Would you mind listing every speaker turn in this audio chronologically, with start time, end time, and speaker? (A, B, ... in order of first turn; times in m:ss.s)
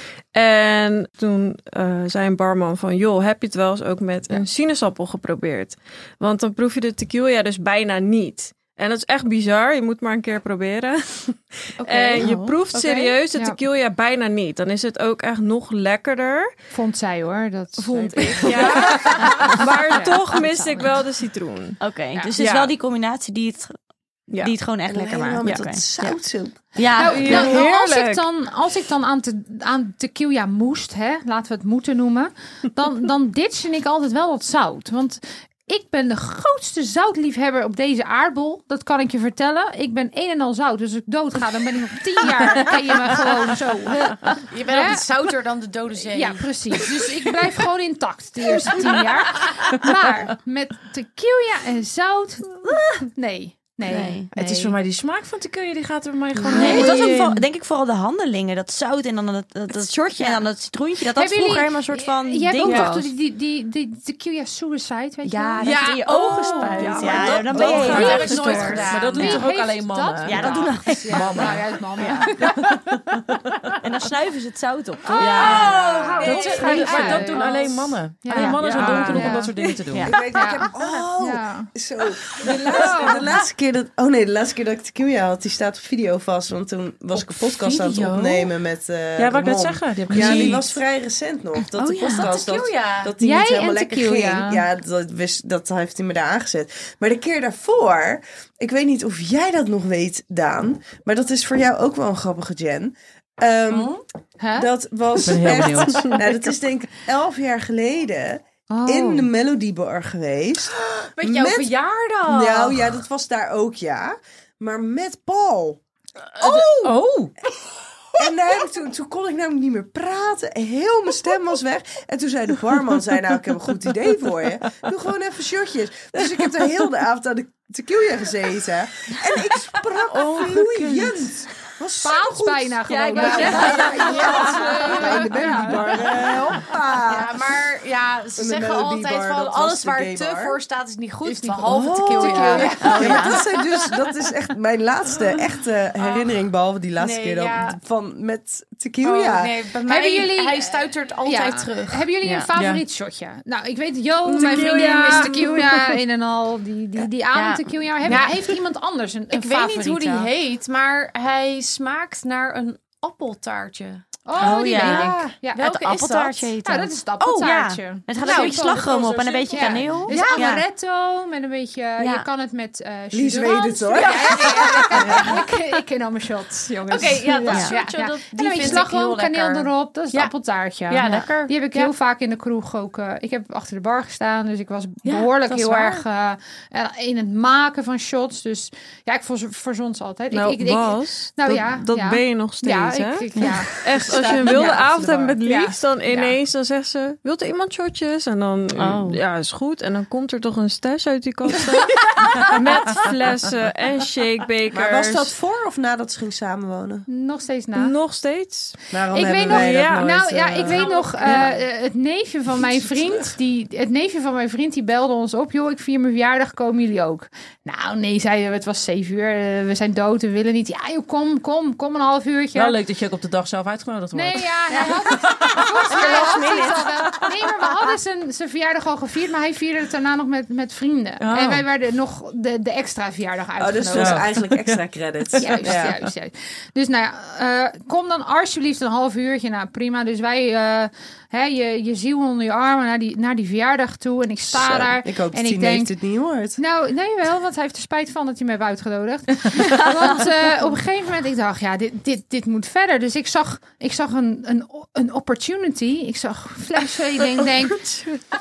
0:00.3-0:16.5 A
0:11.8-0:13.2 B
0:12.2-0:12.6 C
0:16.7-0:21.0 D
0:17.8-0:21.8 A
0:18.5-0:18.8 B
0:21.8-0:23.8 C
0:22.4-0:22.8 A
0:24.3-0:24.6 A
0:24.3-0:26.2 C
0:24.8-0:26.6 E
0:26.8-0:27.6 C
0:26.9-0:45.1 D
0:27.0-0:28.2 A
0:44.5-0:46.9 B
0:46.1-0:54.8 D
0:53.8-0:54.3 C
0:54.3-0:57.4 F
0:56.4-1:03.1 C
0:56.5-0:57.0 D
0:56.7-0:57.1 E
1:01.2-1:12.7 D
1:02.6-1:02.9 B
1:05.2-1:09.4 C
1:05.6-1:09.4 B
1:06.6-1:07.5 A
1:07.1-1:13.8 F
1:10.2-1:12.6 C
1:13.8-1:17.4 C
1:15.1-1:19.5 D
1:15.2-1:20.1 F
1:15.4-1:17.9 B
1:18.3-1:20.2 C
1:20.0-1:43.9 E
1:20.3-1:21.7 D
1:22.4-1:23.2 D
1:27.1-1:28.5 B
1:29.2-1:30.7 F
1:31.8-1:32.3 C
1:32.1-1:33.1 B
1:33.2-1:34.6 D
1:43.7-1:44.0 B
1:44.4-1:44.7 D
1:44.6-1:51.7 E
1:45.2-1:46.2 F
1:48.7-1:49.3 D
1:50.9-1:53.0 B
1:52.2-1:55.8 E
1:56.4-1:57.0 E
1:56.4-1:57.3 F
1:58.2-2:17.4 E
2:10.1-2:11.3 F
2:12.0-2:15.9 D
2:13.0-2:14.9 C
2:13.1-2:15.2 B
2:14.3-2:14.6 A
2:17.0-2:23.8 B
2:18.4-2:20.6 E
2:21.2-2:23.4 D
2:21.6-2:29.5 E
2:22.8-2:23.4 C
2:26.0-2:26.4 B
2:27.0-2:27.8 B
2:29.0-2:32.0 B
2:29.8-2:40.3 D
2:32.5-2:32.8 F
2:34.4-2:35.3 A
2:37.3-2:38.2 C
2:38.0-2:38.4 B
2:39.3-2:45.0 B
2:44.2-2:45.7 D
2:44.4-2:50.6 C
2:44.7-2:45.3 E
2:45.5-2:46.5 B
2:46.6-3:14.9 D
2:48.2-2:50.4 B
2:52.0-2:52.2 C
2:53.1-2:55.4 E
2:53.9-2:55.3 B
2:56.9-3:00.3 B
2:57.5-2:57.8 C
3:00.9-3:01.9 B
3:05.0-3:06.0 B
3:10.3-3:25.3 A
3:13.8-3:15.4 E
3:15.4-3:16.3 D
3:18.8-3:19.2 C
3:24.7-3:27.0 E
3:27.1-3:27.9 D
3:27.7-3:28.8 A
3:28.9-3:30.8 E
3:29.1-3:42.8 D
3:29.5-3:31.5 A
3:30.8-3:31.5 B
3:42.5-3:46.0 F
3:44.1-3:54.2 D
3:44.7-3:45.0 C
3:45.6-3:46.9 C
3:51.2-3:51.6 F
3:53.6-3:55.9 E
3:53.9-3:54.8 F
3:55.3-3:56.0 F
3:55.4-4:05.9 D
4:04.5-4:06.6 E
4:06.6-4:17.9 D